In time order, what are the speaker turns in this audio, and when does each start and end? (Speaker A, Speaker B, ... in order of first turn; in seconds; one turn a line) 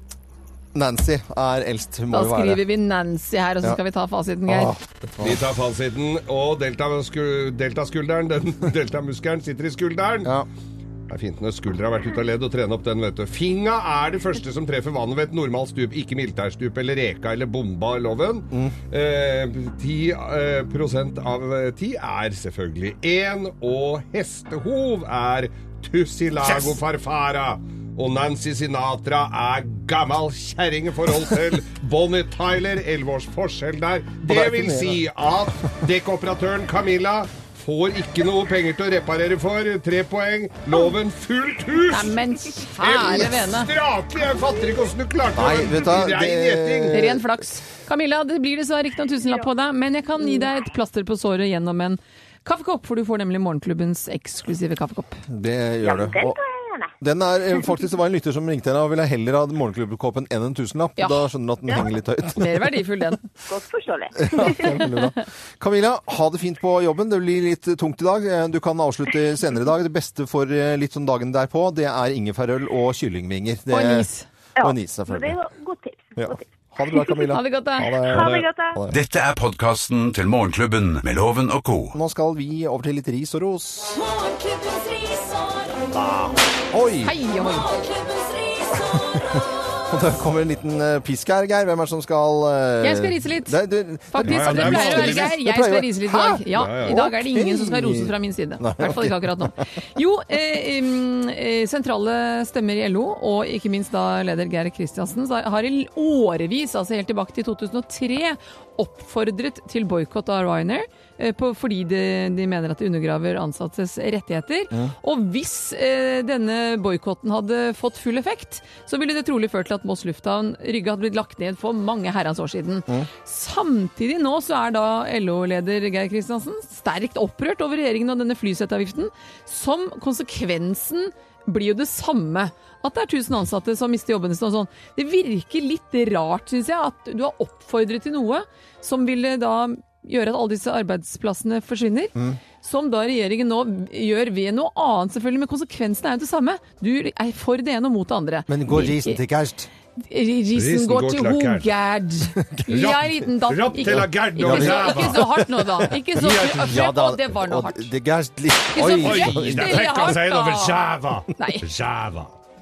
Speaker A: 0.7-2.6
Speaker B: 2.1-4.7
Speaker A: 4.5-5.4
Speaker C: 5.2-10.3
Speaker C: 11.1-42.2
Speaker A: 26.4-26.8
Speaker A: 34.2-35.0
Speaker B: 41.9-43.7
Speaker C: 42.8-47.0
Speaker A: 45.4-47.4
Speaker B: 46.9-55.2
Speaker A: 55.3-56.4
Speaker D: 55.8-56.9
Speaker A: 57.0-62.7
Speaker B: 61.0-61.2
Speaker B: 62.4-63.2
Speaker D: 63.5-64.8
Speaker A: 64.2-75.4
Speaker B: 73.7-74.3
Speaker D: 74.6-77.3
Speaker A: 76.2-79.0
Speaker B: 77.3-78.0
Speaker D: 78.2-78.7
Speaker E: 78.9-82.0
Speaker A: 81.9-84.0
Speaker F: 83.9-86.0
Speaker A: 86.7-87.2
Speaker B: 87.0-87.7
Speaker F: 87.3-90.0
Speaker A: 89.3-99.6
Speaker B: 92.8-93.6
Speaker B: 94.1-149.2
Speaker C: 94.2-95.3
Speaker C: 96.5-97.0
Speaker A: 148.5-149.7
Speaker B: 150.0-157.9
Speaker C: 150.5-151.7
Speaker C: 152.7-156.9
Speaker A: 153.8-155.4
Speaker A: 156.3-159.9
Speaker B: 158.7-161.7
Speaker C: 158.8-162.4